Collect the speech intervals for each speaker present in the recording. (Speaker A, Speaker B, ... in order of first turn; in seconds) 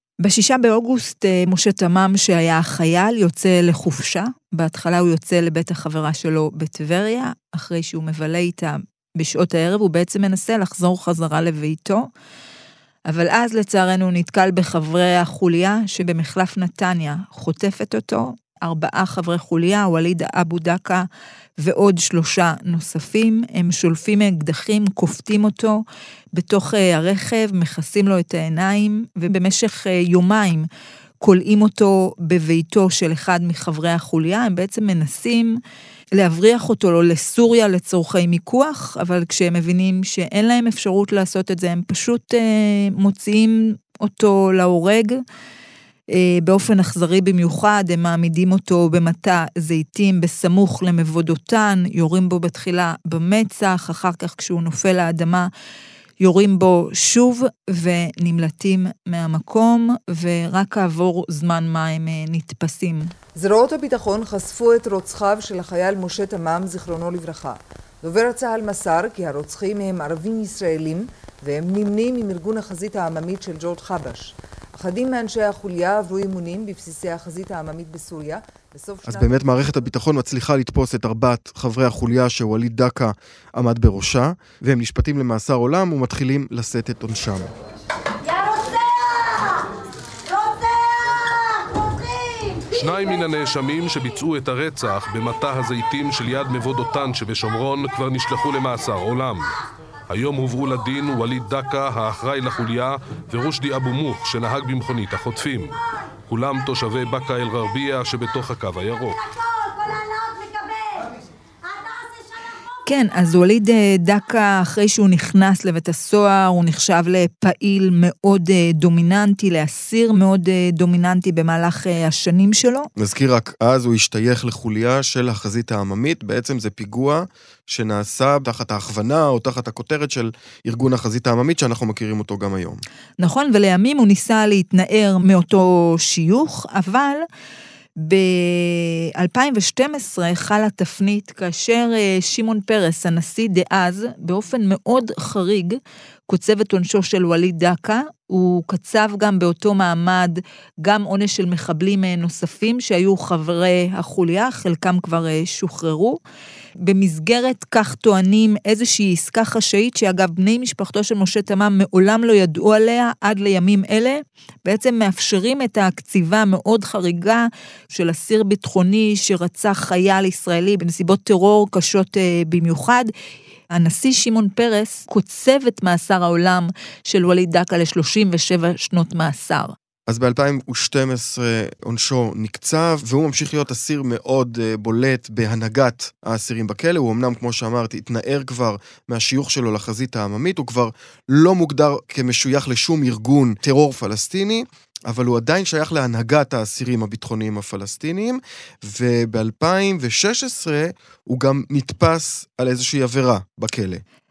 Speaker A: 0.2-12.1, 13.1-21.1, 21.6-25.8, 26.3-30.7, 31.2-35.6, 36.2-45.2, 46.1-55.5, 56.2-63.1, 112.9-122.9, 133.2-137.2, 138.0-145.8, 146.3-156.2, 156.9-173.1, 173.7-179.8
Speaker B: 63.4-79.6
Speaker C: 79.0-87.5, 123.0-132.8, 180.1-204.0
Speaker D: 92.5-99.6, 100.1-109.5